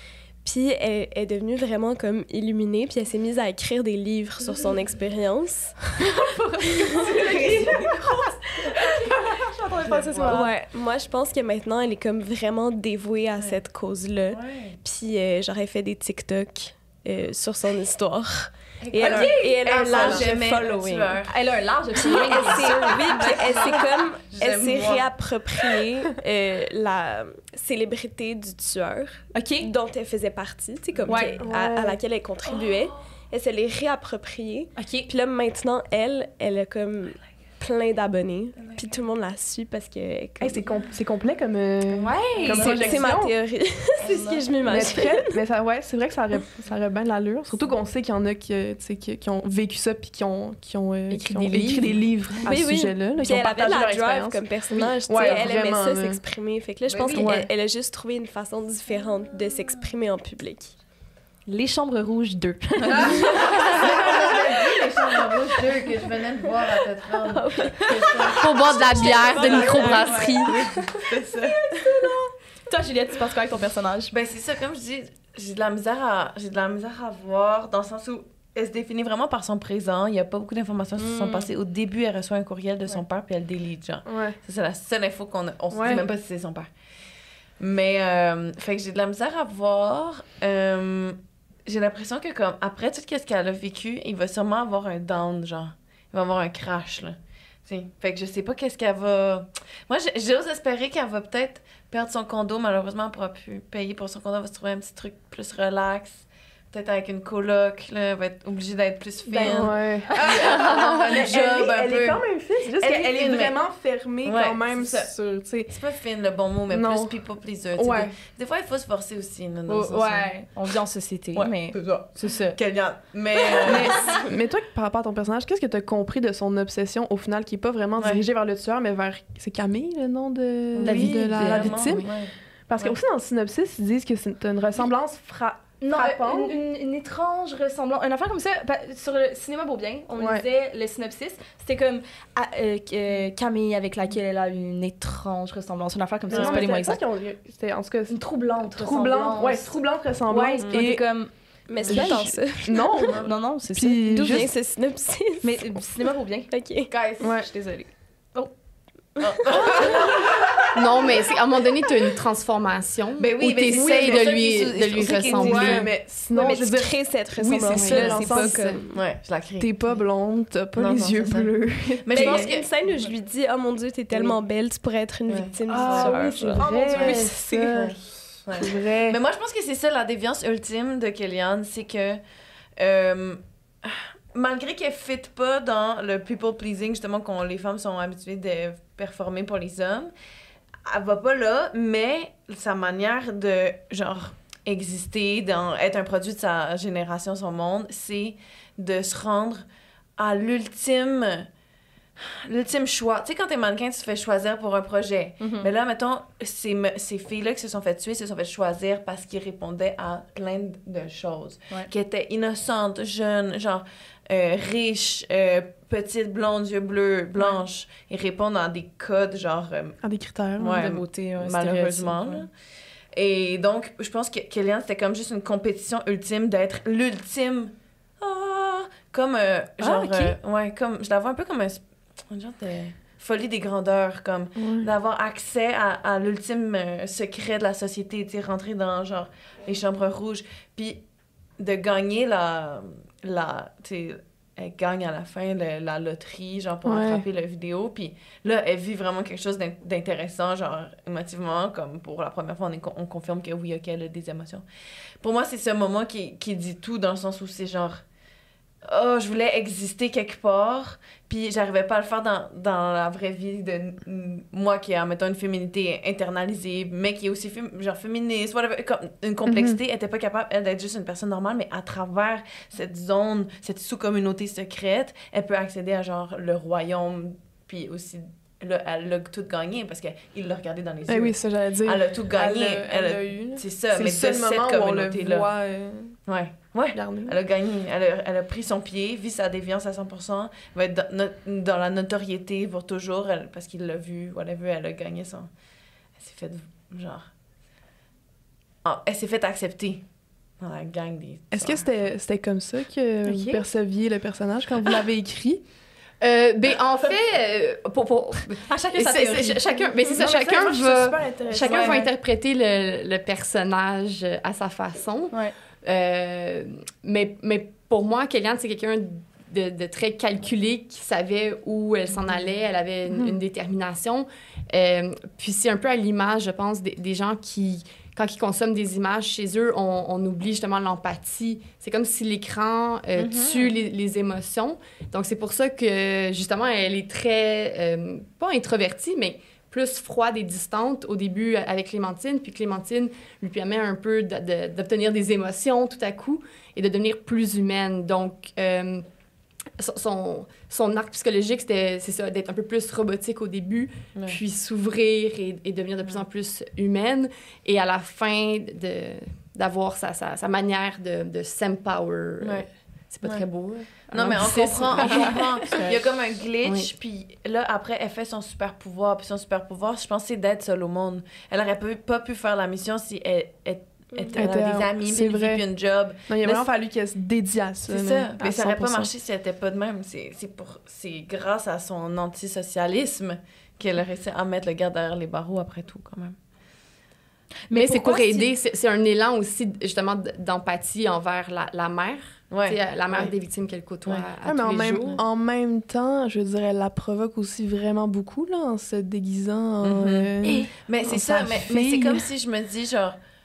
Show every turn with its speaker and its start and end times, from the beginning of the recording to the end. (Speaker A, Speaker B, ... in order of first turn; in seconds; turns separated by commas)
Speaker A: 0.4-6.0, Speaker B: 6.1-10.5, Speaker A: 7.0-7.6, Speaker C: 9.8-10.4, Speaker A: 10.3-21.2, Speaker C: 14.3-14.8, Speaker C: 18.8-21.4, Speaker B: 19.0-23.8, Speaker A: 22.0-40.6, Speaker C: 22.1-22.7, Speaker C: 23.2-25.1, Speaker B: 29.3-29.7, Speaker C: 31.0-31.4, Speaker B: 31.1-31.4, Speaker D: 31.4-32.0, Speaker C: 32.5-33.0, Speaker B: 34.8-35.1, Speaker C: 38.6-38.9, Speaker D: 40.4-43.3, Speaker B: 41.9-43.1, Speaker A: 42.4-45.4, Speaker B: 44.0-45.0, Speaker D: 44.7-56.2, Speaker E: 51.1-52.1, Speaker A: 52.5-60.8, Speaker E: 54.7-55.0, Speaker C: 55.1-55.4, Speaker C: 56.9-57.4, Speaker D: 57.2-57.5, Speaker B: 61.5-63.9, Speaker C: 62.9-71.6, Speaker A: 63.1-63.6, Speaker A: 67.1-70.7, Speaker B: 67.9-68.3, Speaker E: 68.3-70.5, Speaker B: 69.4-70.5, Speaker B: 71.3-74.1, Speaker A: 71.8-72.1, Speaker C: 74.1-86.7, Speaker B: 81.0-81.5, Speaker D: 84.1-84.4, Speaker D: 85.7-86.0, Speaker C: 87.6-113.6, Speaker D: 109.2-115.7, Speaker C: 114.2-115.1, Speaker C: 115.7-120.3, Speaker D: 116.7-117.2, Speaker D: 117.8-118.1, Speaker B: 119.7-122.6, Speaker C: 121.4-124.3, Speaker D: 123.7-132.1, Speaker C: 130.8-133.0, Speaker B: 130.9-131.7, Speaker E: 131.4-132.1, Speaker D: 132.7-136.6, Speaker B: 135.8-147.0, Speaker D: 140.2-140.4, Speaker D: 146.3-151.1, Speaker C: 146.3-146.7, Speaker B: 148.1-154.5, Speaker A: 151.7-153.2, Speaker D: 151.9-154.5, Speaker A: 154.2-155.8, Speaker B: 155.4-156.5, Speaker A: 156.5-156.9, Speaker C: 156.9-157.5, Speaker D: 157.2-157.9, Speaker C: 159.2-160.6, Speaker E: 160.7-166.6, Speaker C: 163.2-165.9, Speaker D: 163.7-164.3, Speaker D: 165.4-168.8, Speaker A: 166.3-168.9, Speaker E: 167.7-168.9, Speaker C: 168.9-170.0, Speaker D: 169.6-172.5, Speaker C: 170.8-172.7, Speaker A: 172.1-176.7, Speaker C: 175.3-176.1, Speaker D: 175.7-178.0, Speaker B: 176.6-177.8, Speaker C: 176.9-182.2, Speaker D: 178.6-179.2, Speaker C: 182.8-190.1, Speaker C: 190.9-199.7, Speaker C: 200.2-201.5, Speaker C: 202.2-220.0, Speaker B: 205.4-205.7, Speaker D: 220.0-220.9, Speaker C: 220.6-222.5, Speaker B: 220.7-222.5, Speaker C: 223.1-241.0, Speaker B: 229.8-230.4, Speaker D: 234.6-234.9, Speaker C: 241.6-254.7, Speaker D: 246.8-247.2, Speaker C: 255.2-258.0, Speaker C: 258.9-285.5, Speaker D: 269.5-269.8, Speaker D: 281.1-286.2, Speaker C: 286.3-295.5, Speaker D: 286.9-287.4, Speaker C: 296.2-297.3, Speaker C: 298.8-300.1, Speaker C: 300.6-302.1, Speaker D: 301.5-305.6, Speaker B: 303.2-303.6, Speaker E: 306.2-349.1, Speaker B: 308.7-309.6, Speaker D: 310.1-312.1, Speaker C: 311.7-312.0, Speaker C: 333.2-333.8, Speaker E: 349.8-366.0, Speaker C: 362.4-362.7, Speaker C: 363.2-376.7, Speaker E: 366.6-366.9, Speaker D: 374.3-375.6, Speaker D: 376.3-379.1, Speaker C: 377.9-386.4, Speaker B: 387.7-388.5, Speaker E: 387.7-395.2, Speaker C: 392.5-393.3, Speaker D: 394.4-402.3, Speaker C: 399.8-403.2